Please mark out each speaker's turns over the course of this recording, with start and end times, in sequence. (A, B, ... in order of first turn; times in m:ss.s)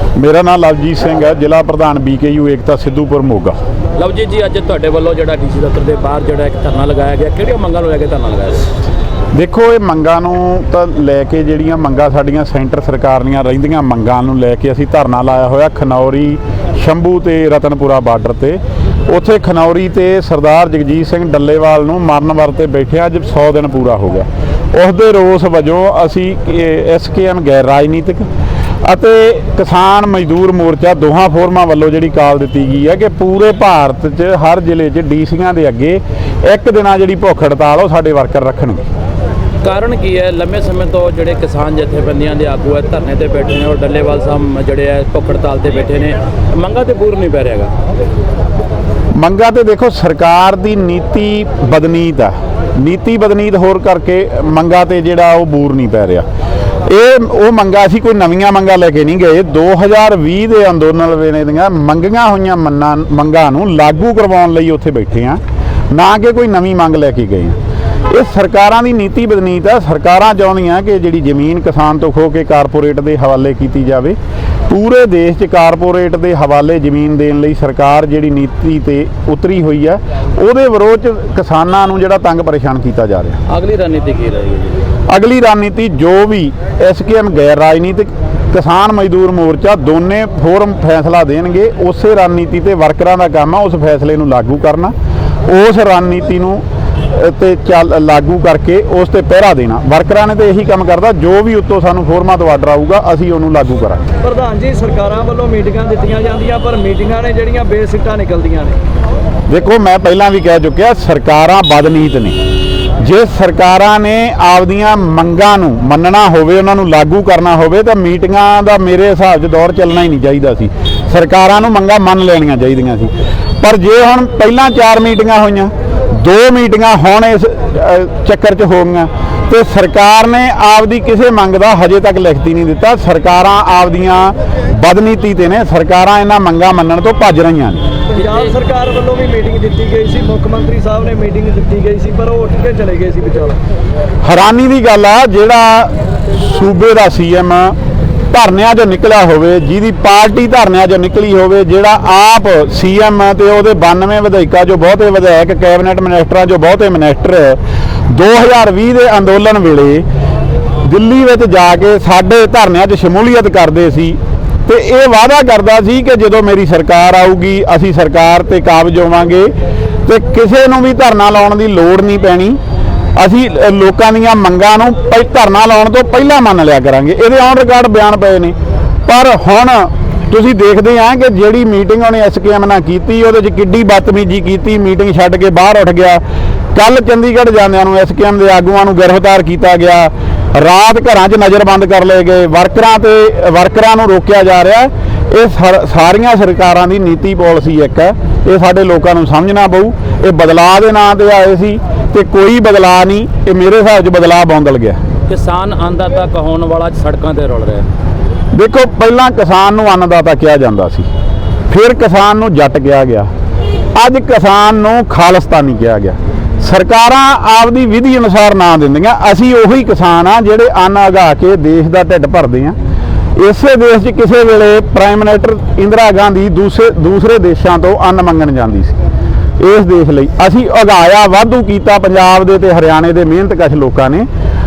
0:00.2-0:03.6 A
0:04.0-0:08.7 B
0:09.3-0:28.3 A
0:28.8-0:38.8 A
0:39.6-0:47.7 B
0:49.2-0:56.3 A
0:56.9-1:07.6 A
1:08.1-1:14.2 A
1:14.7-1:23.4 A
1:23.5-1:24.8 B
1:25.1-1:34.9 A
1:35.5-1:44.0 A
1:44.2-1:48.8 C
1:49.5-1:52.4 A
1:53.0-2:17.8 A
2:18.1-2:23.6 C
2:18.2-2:18.5 B
2:24.2-2:27.8 A
2:28.3-2:40.0 A
2:40.8-2:49.5 A
2:50.1-2:52.6 A
2:53.2-2:58.6 A
2:59.1-3:06.2 A
3:06.7-3:25.0 A
3:25.3-3:27.8 B
3:28.5-3:31.1 A
3:31.7-3:33.3 A
3:34.0-3:42.8 A
3:43.4-3:49.0 A
3:49.6-3:54.3 A